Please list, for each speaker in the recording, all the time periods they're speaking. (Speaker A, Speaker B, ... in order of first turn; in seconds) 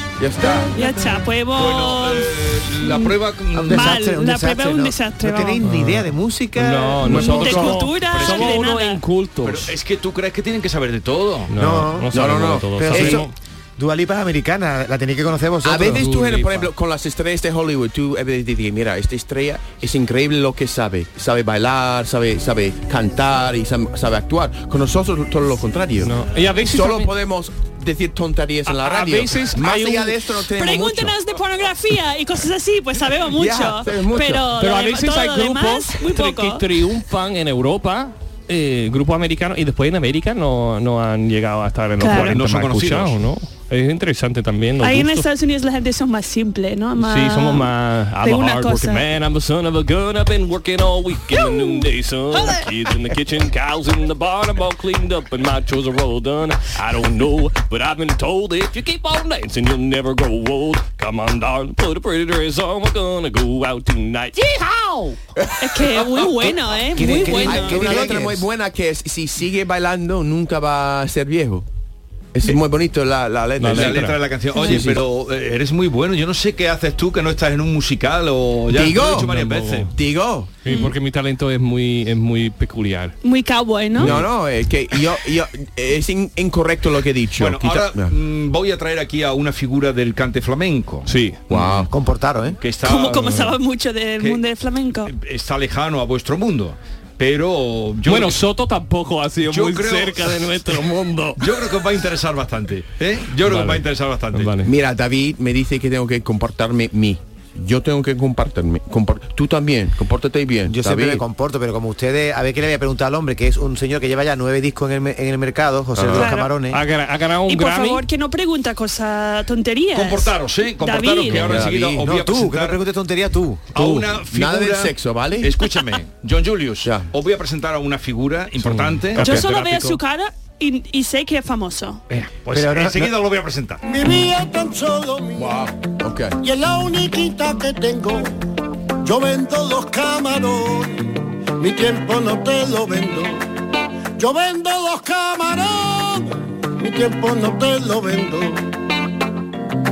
Speaker A: 0.2-0.7, 7.1-7.7, 12.1-13.2, 15.6-26.1, 26.6-31.1, 33.3-34.4, 65.4-66.3, 67.3-71.7, 72.3-75.0, 78.7-79.3, 79.9-80.5, 84.0-88.1, 91.5-91.9, 104.6-111.2, 115.9-116.3, 121.3-122.1, 123.7-125.6, 126.8-127.1, 129.2-129.4, 135.4-136.3
Speaker B: 0.4-1.0, 5.6-9.7, 11.5-13.3, 15.8-16.7, 26.0-27.1, 28.6-30.2, 34.6-45.3, 47.0-65.1, 73.6-74.8, 79.1-79.9, 80.6-83.1, 84.0-84.3, 91.0-91.4, 98.0-101.4, 103.4-104.7, 116.7-118.0, 128.6-130.0
Speaker C: 0.7-3.1, 3.7-5.6, 7.0-9.0, 30.6-36.6, 42.0-42.4, 44.8-47.7, 48.2-49.1, 65.6-68.1, 80.7-80.9, 83.2-84.2, 92.8-95.1, 116.1-116.5, 117.5-121.6, 129.2-132.0
Speaker D: 1.5-4.0, 8.0-8.6, 9.4-11.5, 42.0-43.2, 73.6-79.9, 87.4-91.8, 92.6-93.5, 95.0-98.4, 99.5-100.4, 101.4-104.6, 119.9-122.8, 123.7-129.4, 132.1-133.8
Speaker E: 3.5-7.1, 11.6-16.1, 66.9-68.5, 91.9-92.6, 110.7-116.8, 121.8-123.7, 132.5-133.1
Speaker F: 133.8-135.6, 136.4-138.3, 139.0-143.4, 144.2-148.7